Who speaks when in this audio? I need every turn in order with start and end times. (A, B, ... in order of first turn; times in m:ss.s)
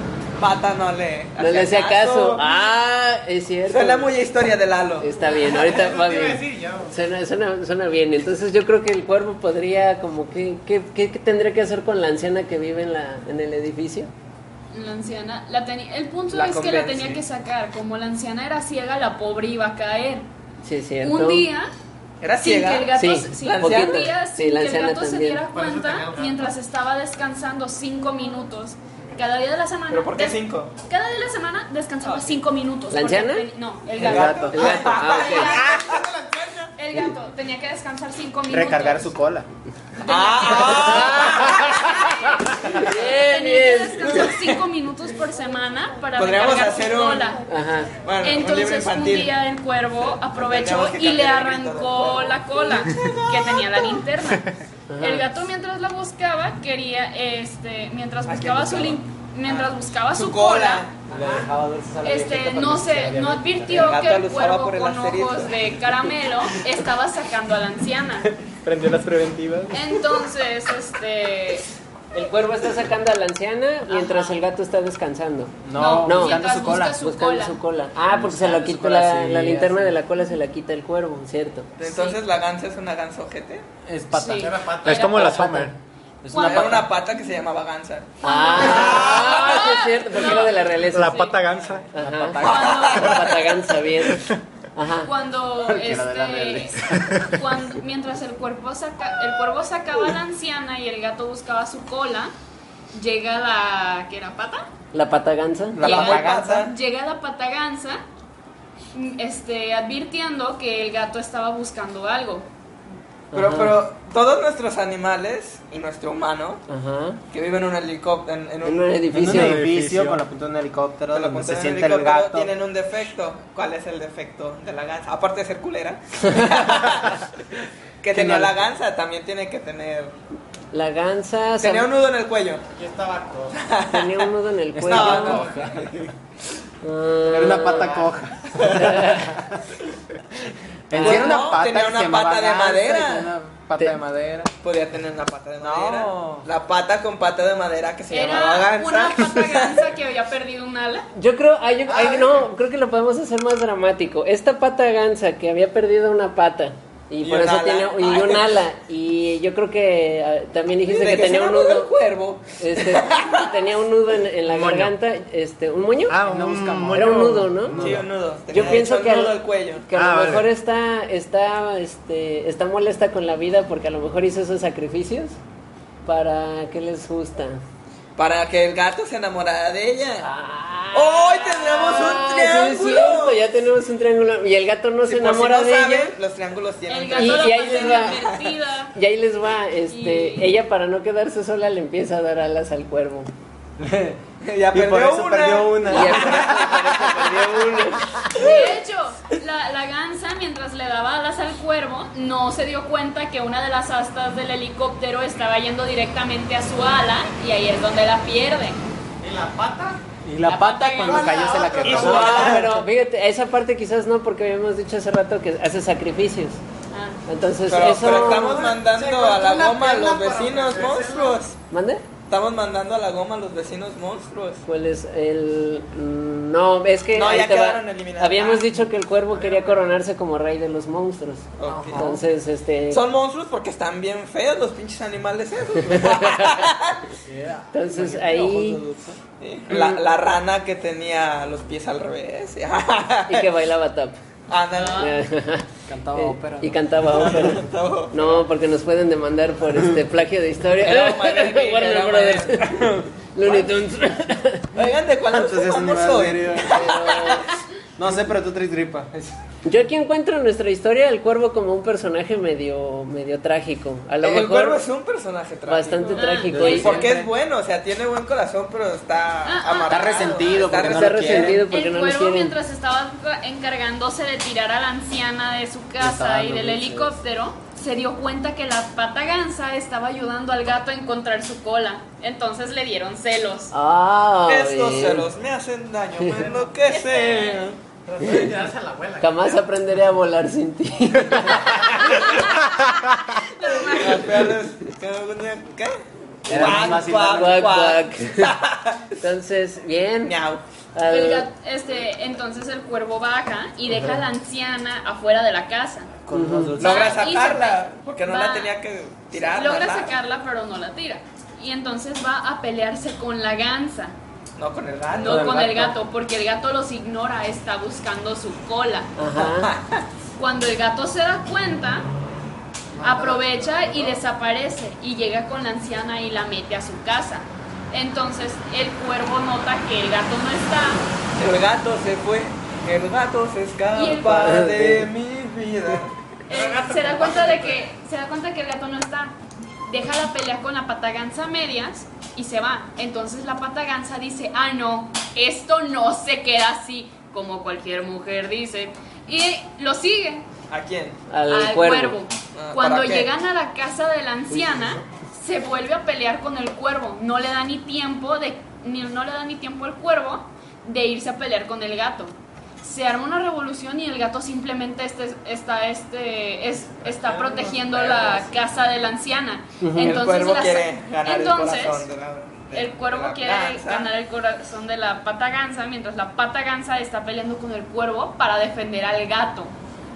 0:00.4-0:02.4 A
0:01.4-0:04.1 B
0:03.7-0:05.1 A
0:05.0-0:14.1 B
0:05.3-0:06.9 C
0:14.7-0:20.2 D
0:16.3-0:17.2 A
0:20.6-0:21.5 B
0:21.0-0:21.7 D
0:22.2-0:24.1 A
0:22.4-0:35.8 D
0:22.9-0:25.4 B
0:25.4-0:26.6 C
0:29.9-0:30.7 A
0:32.0-0:32.3 A
0:32.9-0:33.5 B
0:33.9-0:36.0 A
0:34.0-0:34.6 E
0:34.4-0:35.6 B
0:34.6-0:36.7 C
0:36.8-0:39.1 D
0:38.5-0:39.5 E
0:40.0-0:47.4 D
0:40.0-0:42.0 A
0:40.8-0:42.1 B
0:42.6-0:44.3 B
0:44.1-0:44.6 A
0:46.2-0:47.3 A
0:47.5-0:47.9 B
0:48.0-0:49.4 A
0:48.2-1:00.9 D
0:50.3-0:53.8 A
0:54.9-0:55.3 B
0:58.3-1:01.0 A
1:01.1-1:04.0 E
1:02.0-1:08.3 D
1:03.7-1:05.6 A
1:08.3-1:10.2 E
1:09.7-1:11.6 D
1:12.1-1:21.7 B
1:13.9-1:14.4 D
1:15.6-1:17.0 E
1:15.8-1:17.6 D
1:18.1-1:20.0 E
1:21.8-1:23.6 A
1:21.8-1:22.2 D
1:23.8-1:25.7 E
1:24.1-1:25.7 D
1:24.4-1:25.4 C
1:24.8-1:25.7 F
1:26.2-1:26.9 E
1:26.3-1:26.8 D
1:26.3-1:29.6 A
1:28.2-1:31.3 B
1:28.2-1:31.4 D
1:30.9-1:31.9 F
1:31.9-1:33.0 E
1:31.9-1:35.1 B
1:32.4-1:33.7 A
1:32.4-1:33.4 D
1:35.0-1:42.3 D
1:35.5-1:37.4 E
1:42.9-1:44.7 D
1:44.9-1:45.8 B
1:45.7-1:46.7 E
1:45.8-1:48.0 D
1:45.8-1:46.7 A
1:48.9-1:52.5 D
1:53.3-1:53.8 B
1:53.3-1:56.6 A
1:56.7-1:57.2 B
1:57.3-1:58.9 A
1:58.6-1:59.6 B
1:59.1-2:02.5 E
1:59.2-2:00.2 F
2:01.1-2:07.3 A
2:08.0-2:10.1 A
2:08.1-2:08.5 E
2:10.7-2:11.9 B
2:11.6-2:12.6 A
2:12.7-2:13.6 C
2:13.5-2:14.3 A
2:13.9-2:15.6 B
2:14.7-2:15.8 E
2:14.8-2:16.1 A
2:16.8-2:18.0 B
2:17.3-2:19.6 E
2:17.6-2:18.1 C
2:18.6-2:18.9 A
2:18.8-2:19.2 B
2:20.9-2:24.5 E
2:20.9-2:21.3 B
2:21.0-2:23.3 A
2:24.6-2:29.9 A
2:25.6-2:26.4 E
2:28.1-2:31.0 D
2:31.1-2:41.9 B
2:32.0-2:32.3 C
2:37.2-2:38.6 A
2:40.8-2:43.5 A
2:42.6-2:46.2 B
2:44.4-2:44.9 F
2:46.1-2:48.0 F
2:46.2-2:48.0 E
2:46.9-2:47.8 B
2:47.8-2:49.8 A
2:48.5-2:55.4 B
2:49.9-2:50.5 F
2:56.0-2:57.6 B
2:58.2-3:00.3 A
3:00.2-3:06.1 B
3:00.9-3:03.4 A
3:05.0-3:08.5 A
3:06.9-3:08.9 D
3:07.1-3:08.2 B
3:08.9-3:13.3 B
3:09.9-3:10.5 D
3:13.8-3:14.2 E
3:14.4-3:17.0 A
3:14.7-3:18.4 E
3:15.9-3:18.4 B
3:18.3-3:28.8 D
3:29.2-3:30.0 C
3:30.2-3:32.8 E
3:30.4-3:31.6 D
3:31.0-3:32.4 C
3:31.8-3:32.7 A
3:31.9-3:36.6 B
3:36.9-3:37.2 D
3:37.3-3:38.7 B
3:37.7-3:41.5 A
3:38.1-3:41.4 C
3:41.7-3:42.0 B
3:42.3-3:44.6 A
3:44.6-3:53.0 B
3:47.1-3:48.6 A
3:49.4-3:49.8 C
3:51.6-3:52.1 A
3:51.7-3:52.2 E
3:52.9-3:57.0 A
3:56.0-3:56.5 B
3:57.2-3:59.2 E
3:57.7-3:58.8 B
3:59.4-4:03.5 A
3:59.7-4:00.0 B
4:03.3-4:04.2 B
4:04.5-4:05.1 A
4:04.7-4:05.1 D
4:05.0-4:14.7 B
4:05.9-4:06.8 E
4:07.1-4:08.4 A
4:10.8-4:13.8 A
4:14.7-4:17.4 A
4:15.3-4:16.9 E
4:16.7-4:17.5 B
4:18.0-4:19.4 E
4:19.6-4:24.8 B
4:24.2-4:31.6 A
4:25.7-4:27.0 B
4:26.1-4:27.0 D
4:26.5-4:27.3 E
4:29.4-4:30.7 D
4:29.9-4:31.6 E
4:30.8-4:32.6 B
4:31.6-4:43.7 D
4:36.0-4:37.2 E
4:43.7-4:45.3 B
4:44.4-4:47.8 A
4:46.9-4:47.7 D
4:48.1-4:49.6 C
4:49.2-4:52.4 B
4:51.8-4:54.5 D
4:53.9-4:55.9 A
4:56.4-4:59.1 A
4:56.5-4:57.8 E
4:56.5-4:58.5 B
4:59.2-5:00.3 B
5:00.2-5:00.6 A
5:00.9-5:01.5 B
5:01.0-5:06.2 D
5:06.3-5:07.1 E
5:06.3-5:06.8 B
5:06.8-5:10.1 A
5:06.8-5:08.7 D
5:09.3-5:14.1 D
5:14.6-5:15.8 A
5:15.1-5:19.2 D
5:15.3-5:15.9 E
5:19.2-5:19.7 B
5:19.4-5:20.0 A
5:20.4-5:22.1 D
5:23.0-5:31.0 D
5:31.4-5:36.1 A
5:33.9-5:34.7 D
5:34.4-5:35.1 B
5:36.5-5:39.3 D
5:39.9-5:50.4 D
5:50.7-5:51.2 A
5:51.3-5:52.2 B
5:51.5-6:12.1 D
5:52.5-5:53.3 A
5:54.5-5:54.9 E
6:07.2-6:08.5 A
6:09.8-6:10.2 B
6:10.0-6:14.1 A
6:12.7-6:19.7 D